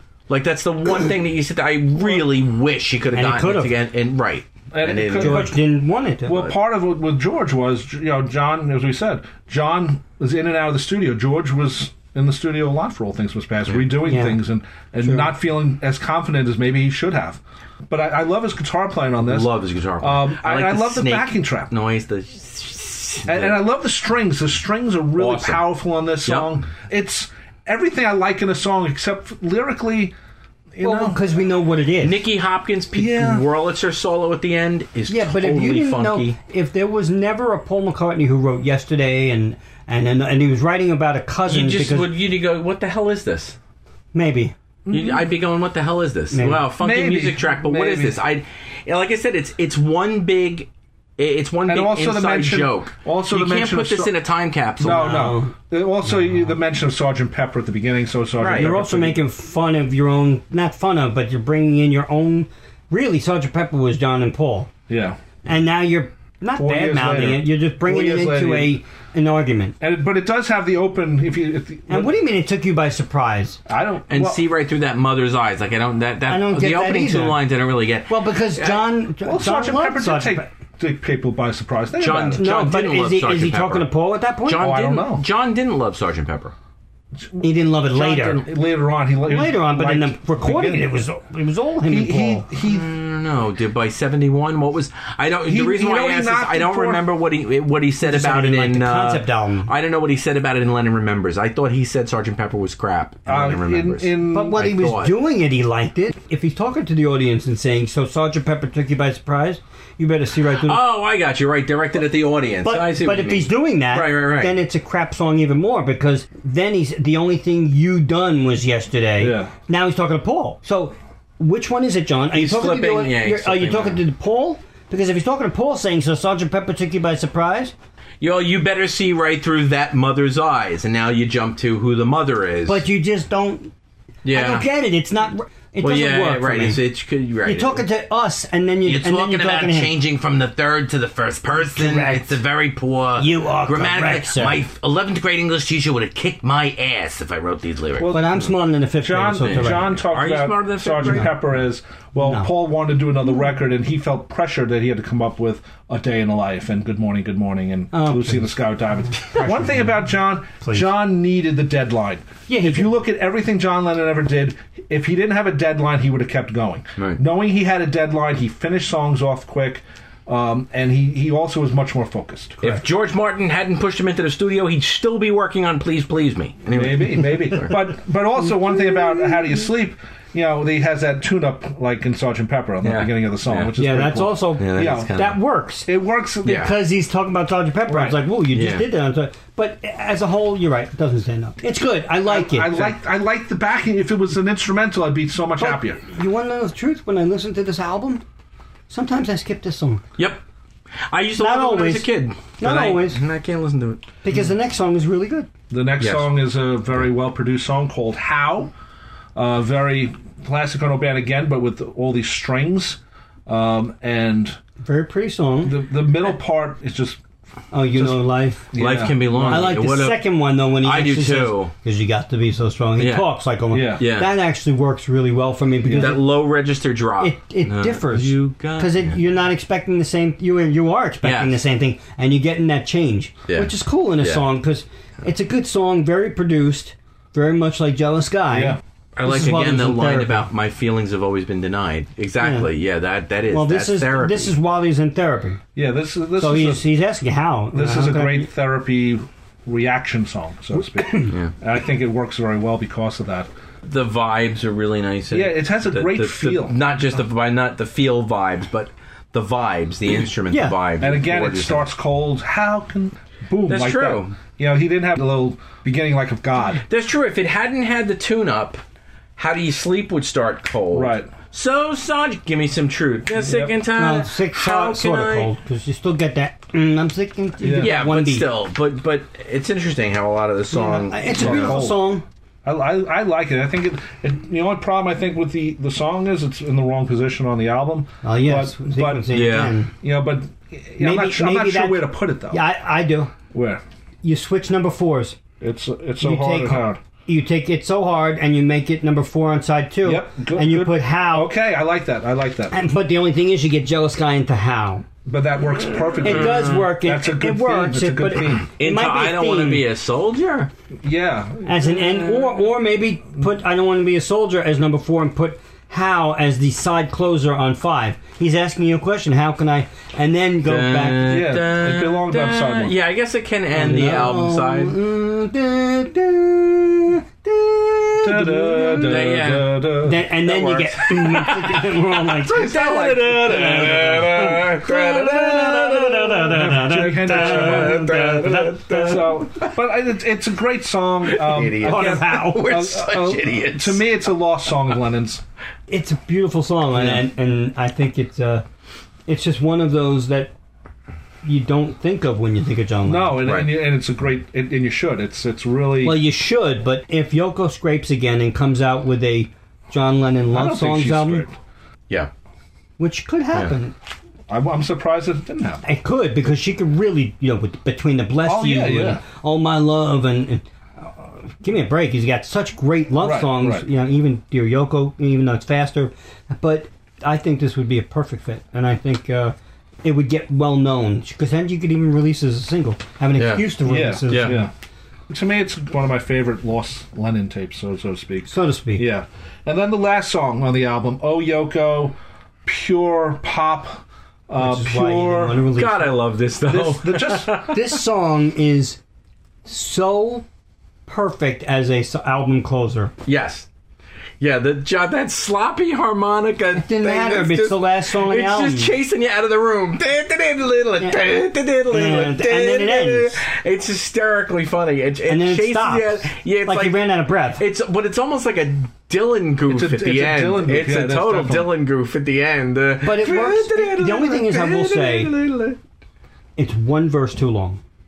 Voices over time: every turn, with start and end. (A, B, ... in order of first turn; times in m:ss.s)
0:00.3-0:05.5 A
0:03.1-0:03.7 B
0:04.7-0:05.5 C
0:05.2-0:06.5 B
0:06.3-0:21.7 C
0:14.0-0:14.4 B
0:15.0-0:15.3 B
0:19.2-0:23.6 A
0:23.2-0:30.1 C
0:25.2-0:25.6 A
0:26.2-0:26.5 A
0:30.7-0:31.2 C
0:30.8-0:32.2 B
0:32.0-0:36.4 A
0:32.9-0:33.4 C
0:35.1-0:42.1 B
0:41.5-0:43.6 A
0:44.1-0:44.5 B
0:44.9-0:45.2 C
0:44.9-0:55.3 A
0:46.3-0:46.6 B
0:46.8-0:48.2 C
0:51.6-0:54.1 C
0:54.8-0:59.2 C
0:54.8-0:55.5 B
0:56.1-0:56.5 B
0:58.4-0:58.7 A
0:58.5-1:04.7 B
1:04.9-1:05.2 C
1:05.4-1:09.7 B
1:06.6-1:08.8 C
1:09.8-1:12.1 C
1:11.9-1:13.6 B
1:13.7-1:14.4 C
1:14.1-1:18.8 A
1:16.3-1:17.4 B
1:18.1-1:20.5 B
1:19.2-1:22.4 C
1:22.0-1:23.9 A
1:22.4-1:24.7 B
1:24.4-1:26.5 A
1:24.5-1:25.2 C
1:27.2-1:30.9 C
1:27.4-1:28.4 B
1:29.2-1:32.4 B
1:31.9-1:32.9 C
1:32.6-1:45.1 A
1:35.4-1:37.0 C
1:38.0-1:39.7 B
1:43.3-1:44.6 C
1:44.3-1:50.8 B
1:50.5-1:54.6 A
1:52.6-2:07.7 B
1:59.2-1:59.5 C
2:02.3-2:04.0 A
2:08.2-2:12.8 A
2:12.7-2:13.7 B
2:14.2-2:14.7 A
2:14.3-2:16.8 B
2:15.8-2:17.8 A
2:17.4-2:19.9 B
2:18.8-2:28.1 A
2:21.6-2:22.4 B
2:23.2-2:24.6 B
2:28.0-2:28.4 C
2:28.1-2:30.0 B
2:29.0-2:52.8 C
2:29.4-2:31.4 A
2:32.2-2:32.5 B
2:37.9-2:38.5 B
2:39.2-2:40.0 B
2:40.6-2:40.9 B
2:42.5-2:42.9 B
2:52.6-2:57.8 A
2:56.7-3:05.1 C
3:02.8-3:03.7 A
3:03.8-3:05.9 B
3:04.6-3:05.4 A
3:05.9-3:06.7 C
3:06.4-3:13.0 B
3:06.4-3:06.7 A
3:07.9-3:08.2 C
3:08.5-3:08.8 A
3:12.2-3:16.0 C
3:15.6-3:18.2 B
3:18.9-3:20.0 B
3:20.2-3:20.4 A
3:21.1-3:24.0 A
3:21.4-3:23.2 B
3:24.2-3:25.5 B
3:25.7-3:28.7 C
3:26.0-3:26.3 A
3:29.4-3:34.6 C
3:34.8-3:35.8 B
3:35.6-3:37.2 C
3:37.7-3:38.7 B
3:37.9-3:39.8 C
3:38.7-3:40.3 A
3:39.4-3:46.3 B
3:40.8-3:41.7 A
3:43.0-3:43.3 A
3:43.7-3:44.0 C
3:44.0-3:44.3 A
3:45.8-3:46.1 C
3:45.9-3:49.1 A
3:47.2-4:00.4 B
3:51.2-3:51.6 A
3:53.5-3:54.4 A
3:58.5-3:58.8 C
3:59.2-4:04.5 A
4:02.4-4:02.7 B
4:03.5-4:05.6 B
4:05.7-4:06.9 C
4:06.4-4:08.5 B
4:07.7-4:13.5 C
4:11.0-4:11.3 B
4:13.8-4:21.9 A
4:15.3-4:16.9 C
4:20.5-4:20.8 B
4:21.0-4:26.8 C
4:23.7-4:24.4 A
4:26.8-4:28.8 A
4:29.4-4:35.5 A
4:30.9-4:31.3 C
4:33.4-4:33.7 C
4:33.9-4:38.5 B
4:37.6-4:37.9 C
4:37.8-4:41.8 A
4:40.7-4:42.2 B
4:41.3-4:42.1 C
4:42.6-4:49.3 C
4:48.2-4:49.9 B
4:49.3-4:49.7 A
4:50.0-4:52.6 C
4:51.0-4:53.3 B
4:53.5-4:53.8 C
4:54.2-4:55.4 B
4:55.6-4:57.0 C
4:56.2-5:01.5 B
5:00.0-5:02.7 C
5:02.7-5:05.0 B
5:05.2-5:08.7 C
5:06.2-5:09.8 B
5:06.2-5:06.9 A
5:08.8-5:10.7 A
5:11.0-5:11.8 C
5:11.6-5:21.4 B
5:20.6-5:25.0 A
5:21.2-5:23.0 C
5:23.7-5:29.3 B
5:28.2-5:30.2 C
5:29.0-5:29.8 A
5:30.0-5:39.4 B
5:30.4-5:39.8 A
5:32.4-5:34.4 C
5:36.4-5:38.2 C
5:38.9-5:45.4 C
5:41.2-5:44.1 A
5:41.8-5:42.7 B
5:45.9-5:48.6 B
5:49.3-5:50.5 B
5:51.4-5:53.4 B
5:53.0-5:56.2 C
5:53.4-5:53.7 A
5:56.0-6:01.4 B
6:00.5-6:01.5 C
6:03.0-6:03.9 B
6:04.5-6:05.8 C
6:05.8-6:24.7 B
6:08.4-6:09.2 C
6:13.2-6:13.9 C
6:23.4-6:23.7 A
6:23.9-6:24.7 C
6:24.3-6:24.6 A
6:25.3-6:35.7 C
6:28.5-6:29.0 B
6:34.6-6:36.2 B
6:35.7-6:37.8 A
6:36.6-6:37.5 C
6:37.6-6:39.0 B
6:39.6-6:40.4 B
6:41.1-6:43.1 B
6:43.2-6:43.7 A
6:44.4-7:05.8 A
6:46.8-6:48.9 B
6:51.9-6:53.4 B
6:55.3-6:57.6 B
6:59.7-7:01.7 C
7:03.0-7:05.3 B
7:06.6-7:07.8 B